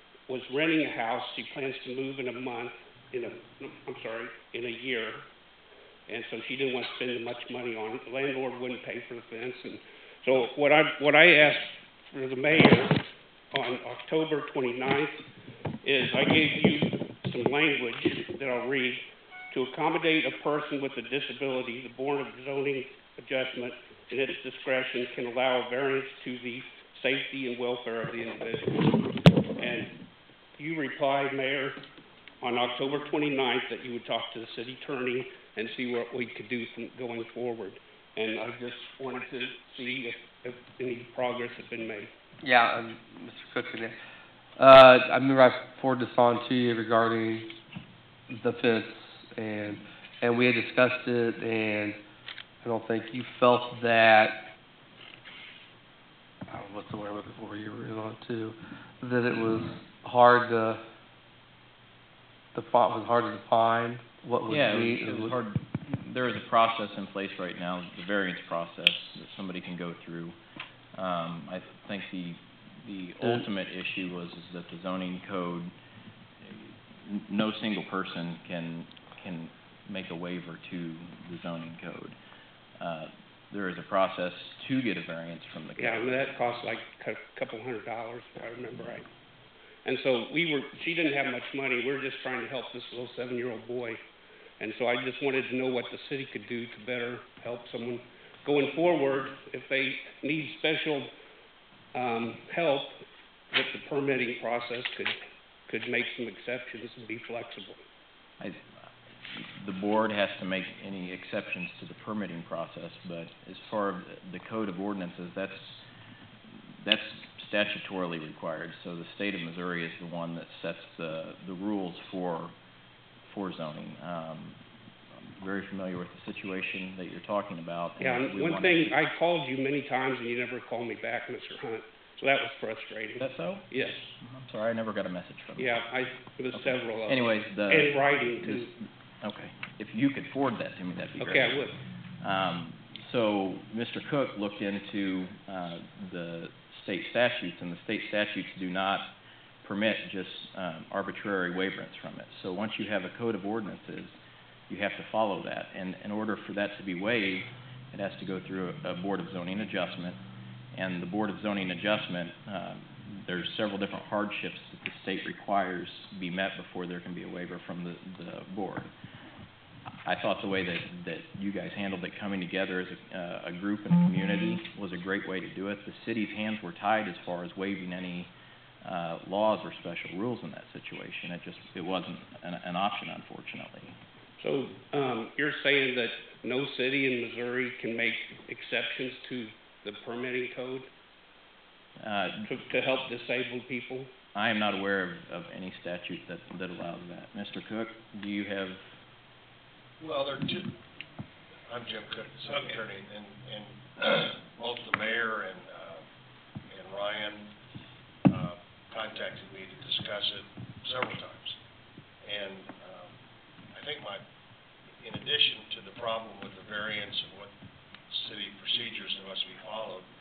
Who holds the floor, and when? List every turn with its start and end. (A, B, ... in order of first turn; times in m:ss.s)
0:00.3-0:05.2 A
0:06.1-0:15.2 A
0:15.8-0:29.0 A
0:29.6-0:30.0 A
0:30.6-0:31.8 A
0:32.4-0:42.1 A
0:42.4-0:44.0 B
0:44.6-0:47.5 B
0:48.3-0:52.0 B
0:52.6-0:54.5 B
0:56.5-1:00.8 B
1:02.5-1:05.4 B
1:04.5-1:10.4 C
1:11.0-1:15.7 C
1:16.4-1:22.2 C
1:22.8-1:26.3 C
1:25.8-1:29.1 A
1:29.8-1:34.0 A
1:34.6-1:41.1 A
1:41.9-1:47.8 A
1:49.2-1:55.8 C
1:56.5-2:02.5 C
2:03.2-2:04.6 C
2:05.1-2:08.9 C
2:08.0-2:14.1 A
2:13.2-2:13.7 C
2:14.2-2:15.8 C
2:15.6-2:18.7 A
2:16.5-2:21.6 C
2:21.2-2:21.8 A
2:22.2-2:34.2 C
2:34.7-2:40.2 C
2:40.7-2:48.9 C
2:50.0-3:04.0 C
3:04.4-3:10.9 A
3:12.0-3:12.5 C
3:12.5-3:14.1 A
3:14.3-3:19.0 C
3:20.0-3:20.7 D
3:21.7-3:26.0 D
3:26.7-3:27.5 D
3:28.3-3:31.6 D
3:32.2-3:33.1 D
3:33.7-3:34.2 D
3:35.0-3:37.5 D
3:38.1-3:40.1 D